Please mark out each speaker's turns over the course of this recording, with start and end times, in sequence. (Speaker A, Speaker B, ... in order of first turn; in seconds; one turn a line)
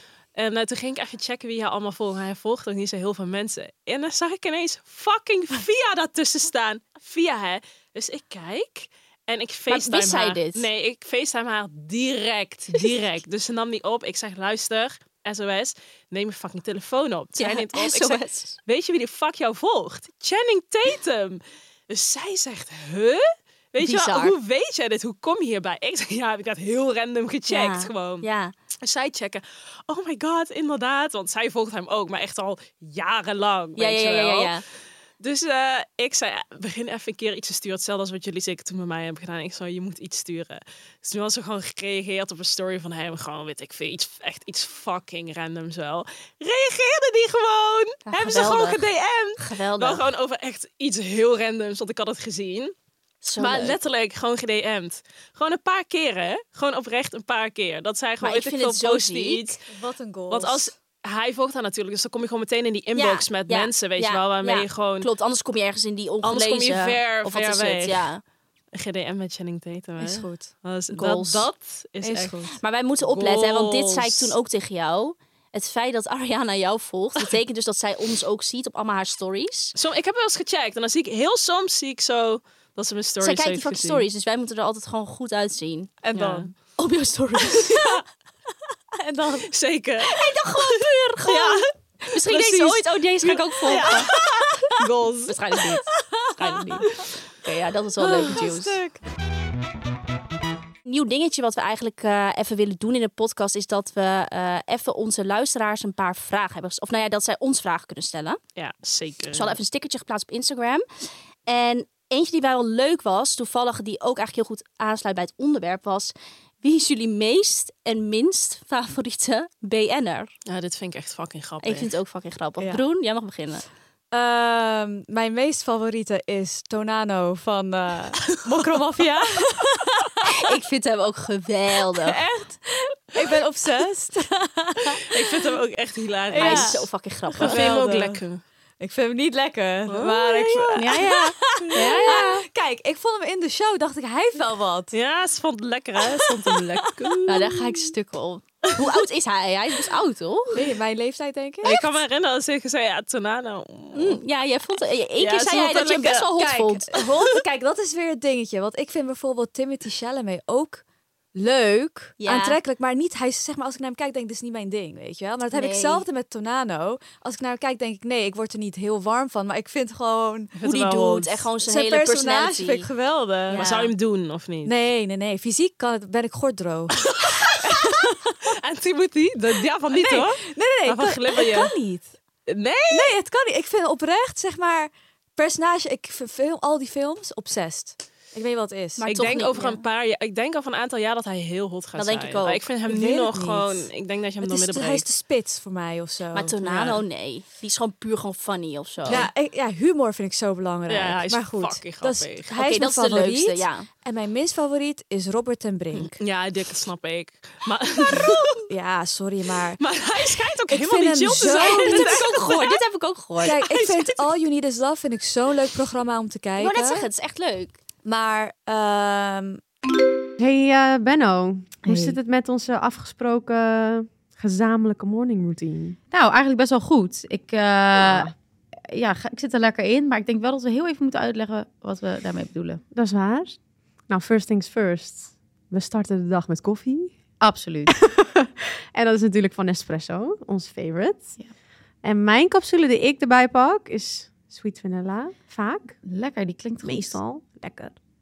Speaker A: 0.3-28.3
Speaker B: 9.7-10.7
Speaker B: 17.4-18.6
Speaker B: 23.8-24.3
Speaker B: 27.5-28.5
Speaker A: 28.8-34.5
Speaker B: 33.8-34.6
Speaker A: 35.2-52.7
Speaker B: 48.0-48.9
Speaker B: 49.4-50.0
Speaker B: 53.2-53.8
Speaker A: 53.4-59.6
Speaker B: 58.2-59.5
Speaker C: 59.7-60.7
Speaker A: 60.3-65.1
Speaker B: 62.9-68.2
Speaker A: 66.2-68.1
Speaker A: 68.7-72.4
Speaker C: 70.0-70.5
Speaker B: 70.9-71.5
Speaker C: 72.0-72.6
Speaker B: 72.6-79.7
Speaker A: 73.0-74.3
Speaker A: 79.7-84.0
Speaker B: 83.2-86.0
Speaker C: 86.0-86.5
Speaker A: 86.1-86.5
Speaker B: 86.8-87.8
Speaker A: 87.6-88.0
Speaker C: 89.0-89.5
Speaker A: 89.5-95.5
Speaker B: 90.0-94.1
Speaker C: 93.7-94.5
Speaker B: 95.2-95.8
Speaker C: 95.9-96.9
Speaker B: 96.4-98.8
Speaker A: 96.4-96.9
Speaker C: 98.0-99.0
Speaker B: 100.8-108.4
Speaker A: 108.5-109.6
Speaker B: 109.3-120.3
Speaker A: 120.5-121.9
Speaker B: 121.6-123.6
Speaker C: 124.1-130.3
Speaker B: 130.3-132.2
Speaker C: 132.0-135.5
Speaker A: 135.1-136.8
Speaker C: 136.3-138.2
Speaker B: 136.3-137.7
Speaker A: 137.4-138.4
Speaker C: 138.8-144.9
Speaker A: 139.9-141.0
Speaker B: 140.7-142.4
Speaker A: 141.7-142.0
Speaker A: 144.9-147.6
Speaker C: 146.0-147.2
Speaker B: 147.2-150.7
Speaker C: 150.5-151.8
Speaker A: 151.6-154.2
Speaker B: 153.9-157.0
Speaker A: 155.2-156.3
Speaker C: 156.4-170.5
Speaker B: 162.2-162.6
Speaker B: 165.5-166.0
Speaker A: 170.6-171.5
Speaker B: 170.6-172.9
Speaker C: 171.6-173.7
Speaker B: 173.5-173.9
Speaker A: 173.5-174.7
Speaker C: 174.6-177.1
Speaker A: 177.0-177.6
Speaker C: 177.6-178.4
Speaker A: 178.4-181.7
Speaker C: 179.9-182.1
Speaker A: 182.5-183.1
Speaker C: 182.9-189.1
Speaker B: 189.0-189.8
Speaker A: 189.1-195.1
Speaker B: 191.9-192.7
Speaker C: 192.9-193.9
Speaker C: 194.4-196.6
Speaker B: 196.3-199.3
Speaker A: 196.6-197.0
Speaker C: 199.1-206.2
Speaker A: 200.9-202.5
Speaker B: 202.5-203.9
Speaker A: 206.1-208.5
Speaker C: 208.2-209.8
Speaker A: 209.8-212.8
Speaker C: 210.7-212.2
Speaker B: 211.5-213.6
Speaker C: 213.4-217.1
Speaker A: 213.5-214.3
Speaker B: 216.6-217.8
Speaker C: 218.0-219.6
Speaker D: 220.4-226.0
Speaker E: 221.8-222.2
Speaker E: 226.1-228.3
Speaker E: 228.8-232.8
Speaker D: 232.9-233.6
Speaker D: 234.1-237.2
Speaker E: 237.4-237.9
Speaker D: 238.1-241.3
Speaker D: 242.0-246.0
Speaker E: 246.0-247.2
Speaker D: 246.8-247.9